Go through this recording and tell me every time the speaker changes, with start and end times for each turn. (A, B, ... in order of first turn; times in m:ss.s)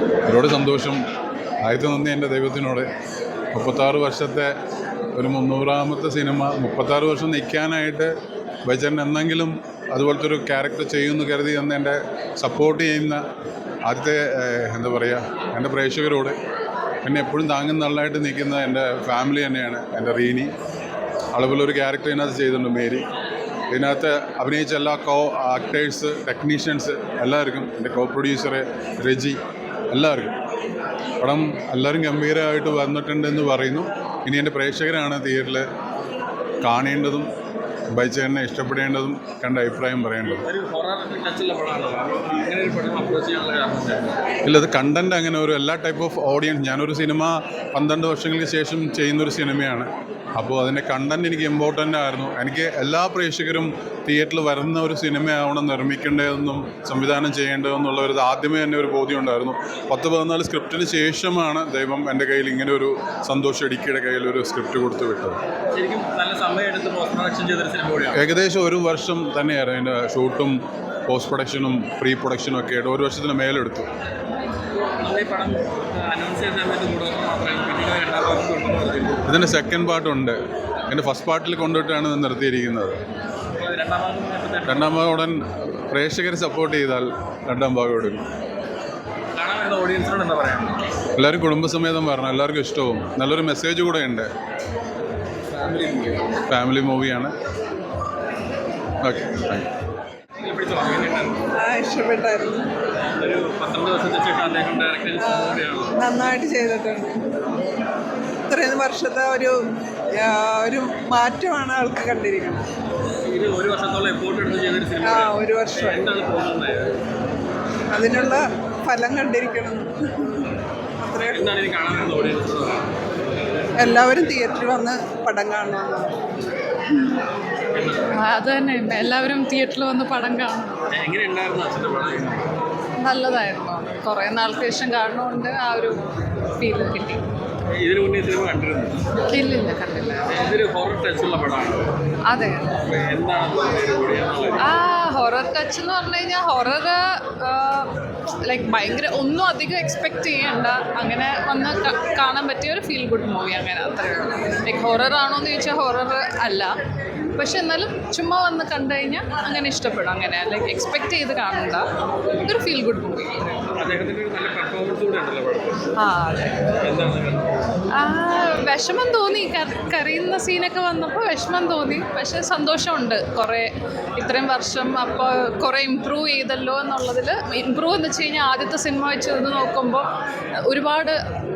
0:00.3-0:01.0 A
0:01.6-0:02.9 A
0:03.5-0:04.5 A
0:05.1-0:08.1 A
0:08.6-0:13.2 A
0:13.8-0:16.4 A
0:17.0-0:20.5 A
0:21.3-0:23.0 A
0:23.7-0:29.4 A
0:29.9-0:30.4 A
0:31.2-0:35.6 A
0:36.6-0:37.3 A
0:37.9-0:40.4 A
0:40.4-0:44.2 B
0:44.4-1:05.4 A
1:05.7-1:08.2 B
1:08.1-1:13.9 A
1:15.0-1:19.2 B
1:19.3-1:23.0 A
1:23.5-1:25.0 B
1:24.7-1:28.2 A
1:29.3-1:30.8 B
1:31.2-1:34.3 A
1:35.5-1:36.4 B
1:36.5-1:37.3 A
1:39.0-1:39.7 A
1:40.4-1:41.4 B
1:41.5-1:42.7 C
1:43.2-1:45.9 B
1:45.2-1:47.2 C
1:48.5-1:49.6 C
1:50.1-1:52.6 C
1:53.2-1:56.9 B
1:55.0-1:56.1 C
1:57.9-2:01.4 C
2:01.3-2:02.9 B
2:03.8-2:06.2 C
2:07.7-2:08.2 B
2:08.1-2:10.8 D
2:10.9-2:12.5 B
2:13.0-2:16.0 D
2:16.6-2:17.2 D
2:17.7-2:19.1 B
2:19.3-2:20.4 D
2:20.3-2:21.9 B
2:22.3-2:22.8 D
2:22.8-2:24.7 B
2:24.6-2:36.7 D
2:37.4-2:41.8 D
2:42.4-2:43.6 D
2:43.7-2:45.9 B
2:46.0-2:46.6 D
2:46.8-2:47.6 B
2:47.9-3:00.1 D
3:00.6-3:01.2 D